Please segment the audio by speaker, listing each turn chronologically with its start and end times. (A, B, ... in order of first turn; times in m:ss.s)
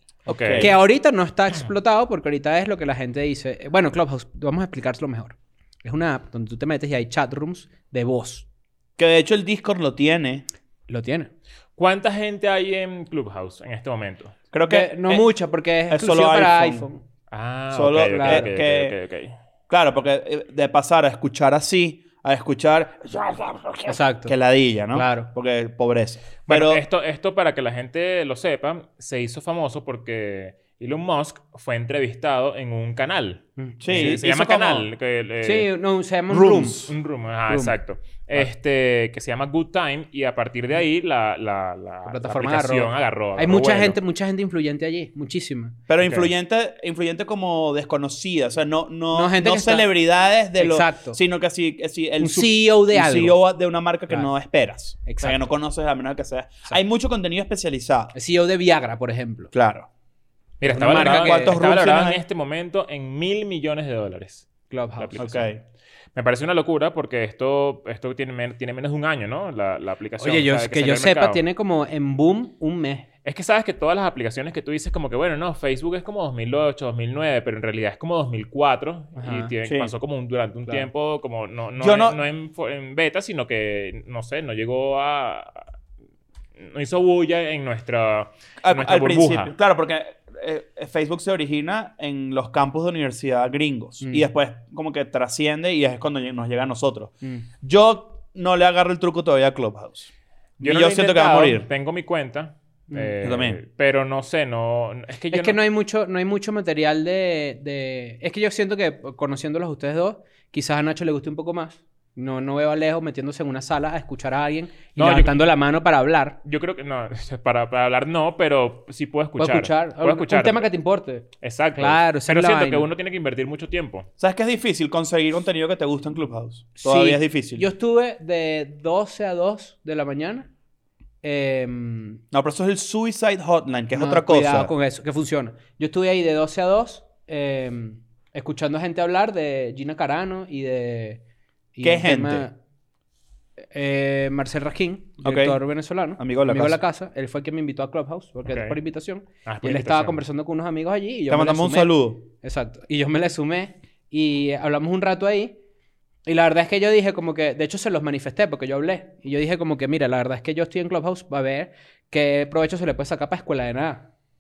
0:00.3-0:00.8 A
0:00.3-0:00.8 B
0:00.6-0:08.4 C
0:09.0-0:10.4 B
0:10.9-0:11.3 C
0:11.8-0:14.4 A
0:14.5-0:15.3 B
0:14.7-0:17.0 C
0:15.9-0:16.9 B
0:17.3-0:19.4 A
0:17.7-0:19.0 B
0:18.0-0:18.5 C
0:19.7-0:26.8 B
0:23.9-0:24.4 C
0:24.9-0:25.3 C
0:26.5-0:35.7 A
0:33.6-0:34.2 C
0:33.8-0:34.9 B
0:35.4-0:36.9 C
0:36.3-0:36.9 B
0:36.8-0:44.0 A
0:37.5-0:37.7 C
0:42.1-0:45.8 C
0:45.9-0:58.1 B
0:46.0-0:46.3 A
0:49.1-0:49.9 C
0:50.6-0:51.2 C
0:52.2-0:53.4 C
0:55.0-0:55.5 C
0:58.1-0:59.5 C
0:59.5-0:59.9 B
1:00.6-1:05.5 A
1:00.7-1:01.6 C
1:00.7-1:02.2 B
1:04.7-1:05.2 C
1:05.2-1:05.6 B
1:06.2-1:11.4 A
1:10.2-1:13.1 C
1:13.2-1:25.6 A
1:19.2-1:19.5 C
1:19.7-1:19.9 B
1:21.8-1:22.2 B
1:26.6-1:29.5 A
1:28.6-1:41.7 B
1:34.0-1:34.3 C
1:40.6-1:45.6 A
1:43.2-1:43.6 B
1:45.3-1:56.4 C
1:55.0-1:55.4 A
1:56.4-2:00.7 A
1:59.4-2:02.9 C
2:01.4-2:04.1 A
2:04.2-2:07.7 B
2:06.8-2:10.5 C
2:11.2-2:12.2 C
2:12.3-2:14.7 B
2:13.9-2:21.2 C
2:21.8-2:22.6 C
2:21.8-2:22.5 B
2:23.7-2:35.6 C
2:25.2-2:25.6 B
2:26.2-2:26.8 B
2:28.5-2:28.8 A
2:29.5-2:30.2 A
2:31.3-2:32.2 B
2:36.2-2:44.1 C